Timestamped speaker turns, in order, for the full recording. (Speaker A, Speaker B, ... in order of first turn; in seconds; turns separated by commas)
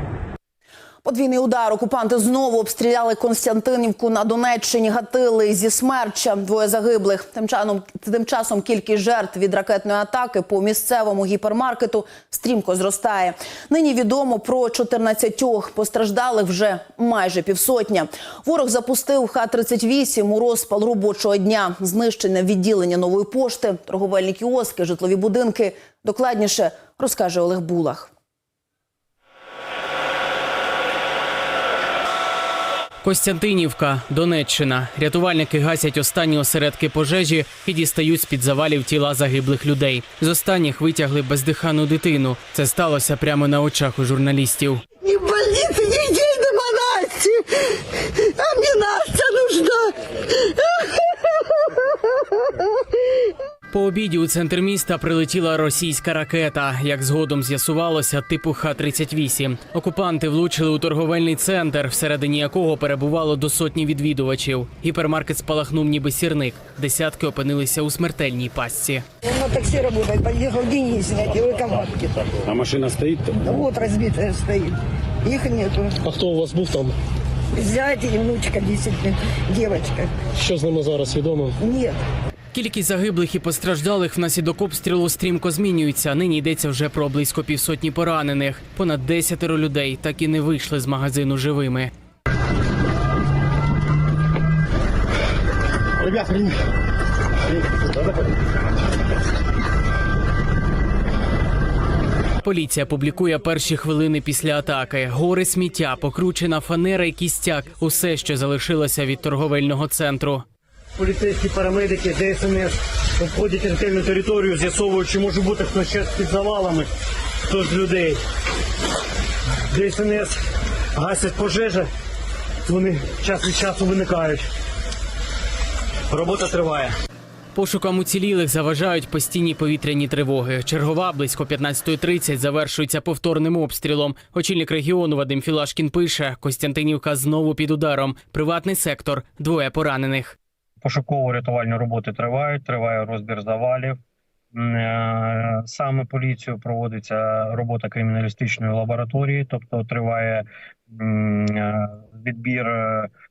Speaker A: 1.0-28.1, Speaker B: 33.0-44.8, Speaker C: 45.0-51.4, Speaker B: 53.7-69.0, Speaker C: 69.2-72.2, Speaker D: 72.7-73.0, Speaker C: 73.2-76.1, Speaker D: 76.1-77.0, Speaker C: 77.5-80.1, Speaker D: 80.4-81.5, Speaker C: 81.6-82.0, Speaker B: 82.5-91.9, Speaker B: 102.4-110.4, Speaker E: 111.0-116.9, Speaker E: 117.5-118.2, Speaker E: 119.7-120.4, Speaker E: 121.0-121.9, Speaker E: 122.7-124.5, Speaker E: 126.1-126.9, Speaker B: 127.5-140.4, Speaker F: 140.8-144.0, Speaker F: 144.5-153.1